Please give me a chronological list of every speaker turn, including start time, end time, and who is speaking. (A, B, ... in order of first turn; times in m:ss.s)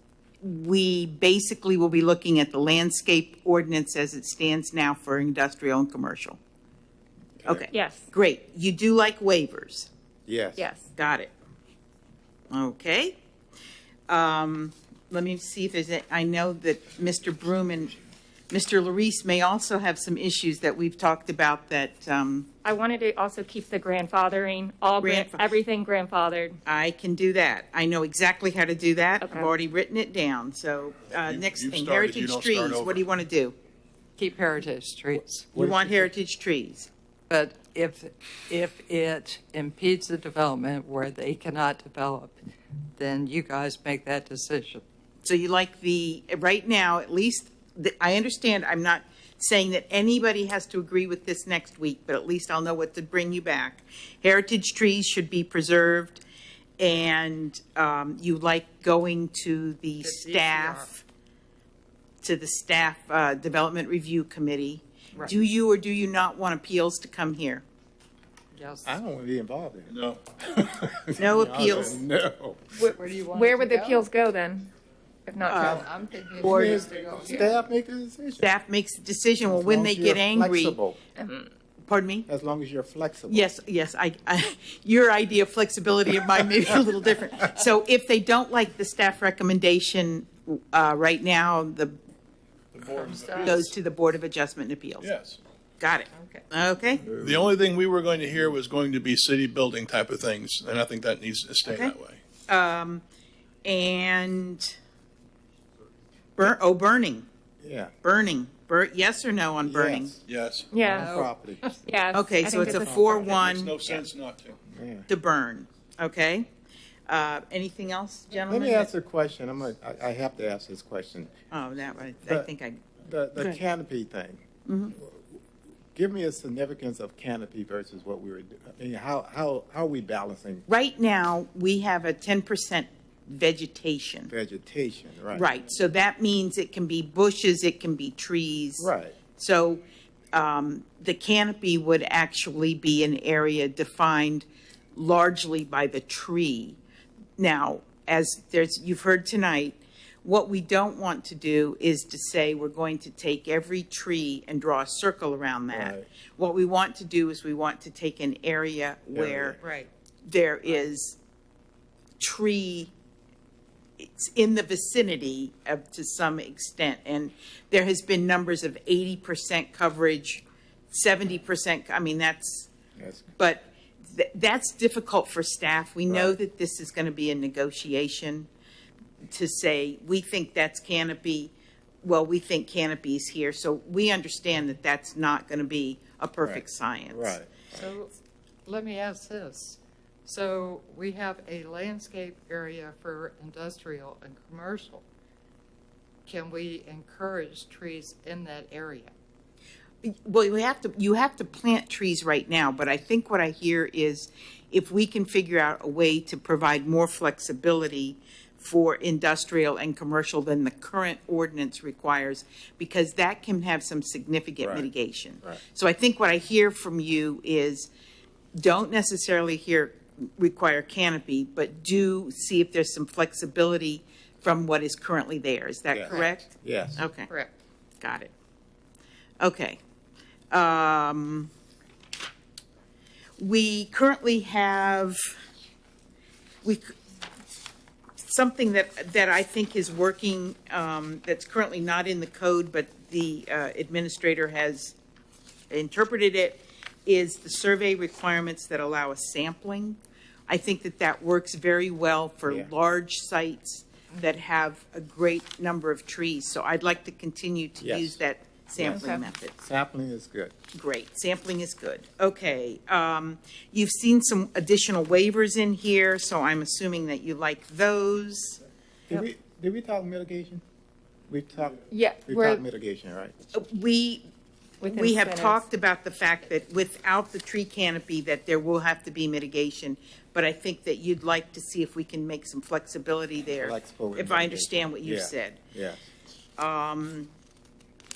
0:00.4-0:06.4 A
0:07.4-0:07.6 B
0:07.4-0:09.9 A
0:07.7-0:08.1 C
0:10.3-0:10.7 B
0:10.6-0:10.9 C
0:11.0-0:11.3 A
0:12.5-0:13.2 A
0:14.1-0:18.0 A
0:18.5-0:22.5 A
0:22.6-0:26.6 C
0:25.0-0:25.5 A
0:26.6-0:33.5 A
0:29.2-0:29.5 C
0:31.2-0:33.1 D
0:34.2-0:35.5 E
0:35.5-0:36.1 B
0:35.5-0:36.9 A
0:37.3-0:42.4 E
0:43.0-0:44.8 E
0:45.2-0:56.2 A
0:56.8-1:01.0 A
1:00.0-1:00.9 E
1:02.2-1:07.6 A
1:08.5-1:09.0 E
1:08.8-1:12.9 B
1:09.9-1:10.2 D
1:11.2-1:12.0 A
1:12.8-1:14.7 C
1:12.9-1:14.0 E
1:15.3-1:15.8 C
1:15.4-1:15.9 A
1:15.5-1:17.5 E
1:16.4-1:18.5 B
1:16.4-1:16.8 A
1:18.4-1:20.8 A
1:19.4-1:21.0 B
1:21.2-1:21.5 C
1:21.9-1:22.3 A
1:22.3-1:23.5 B
1:23.3-1:32.0 A
1:32.7-1:33.7 D
1:32.8-1:33.6 E
1:33.4-1:35.1 A
1:35.0-1:35.4 D
1:35.8-1:37.0 A
1:36.1-1:36.4 E
1:37.0-1:37.5 B
1:37.1-1:42.2 D
1:41.6-1:41.9 A
1:42.5-1:43.0 A
1:43.6-1:44.8 A
1:46.4-1:47.2 A
1:47.6-1:47.9 B
1:48.0-1:50.1 A
1:49.6-1:50.2 B
1:50.2-1:50.7 D
1:50.7-1:51.1 C
1:50.8-1:51.8 B
1:50.8-1:51.7 E
1:51.9-1:53.1 C
1:52.1-1:54.0 A
1:52.4-1:53.5 B
1:53.2-1:54.6 D
1:54.6-1:55.1 B
1:55.1-1:56.5 A
1:57.1-1:58.9 A
1:58.5-2:01.3 B
2:01.5-2:02.8 A
2:03.0-2:04.4 B
2:04.6-2:05.0 A
2:05.0-2:05.3 B
2:05.9-2:10.6 B
2:10.7-2:14.3 A
2:14.3-2:15.5 B
2:15.3-2:19.8 A
2:18.8-2:19.2 B
2:20.3-2:26.8 A
2:27.4-2:39.6 A
2:35.7-2:36.0 B
2:39.1-2:39.6 B
2:39.6-2:39.9 E
2:40.2-2:41.2 A
2:42.2-2:42.9 A
2:44.0-2:52.7 A
2:53.0-2:53.3 B
2:53.4-2:58.5 A
2:56.1-2:56.4 B
2:59.3-3:07.4 A
3:06.4-3:07.9 B
3:07.7-3:08.1 E
3:08.6-3:15.0 E
3:16.2-3:19.1 E
3:20.0-3:37.9 A
3:34.6-3:34.9 B
3:38.6-3:47.3 A
3:45.9-3:47.0 B
3:46.1-3:46.3 E
3:47.3-3:47.5 E
3:48.0-3:48.3 A
3:49.4-3:49.8 A
3:50.5-3:51.5 A
3:53.4-3:55.3 A
3:56.6-3:57.0 A
3:58.2-4:05.0 A
4:05.7-4:19.6 A
4:17.8-4:18.2 B
4:18.8-4:20.5 B
4:18.9-4:19.2 C
4:20.7-4:28.6 A
4:29.1-4:30.6 B
4:31.3-4:33.3 B
4:31.9-4:32.6 C
4:33.5-4:34.2 A
4:34.8-4:35.6 C
4:34.9-4:45.6 A
4:43.6-4:46.0 B
4:46.6-4:47.3 A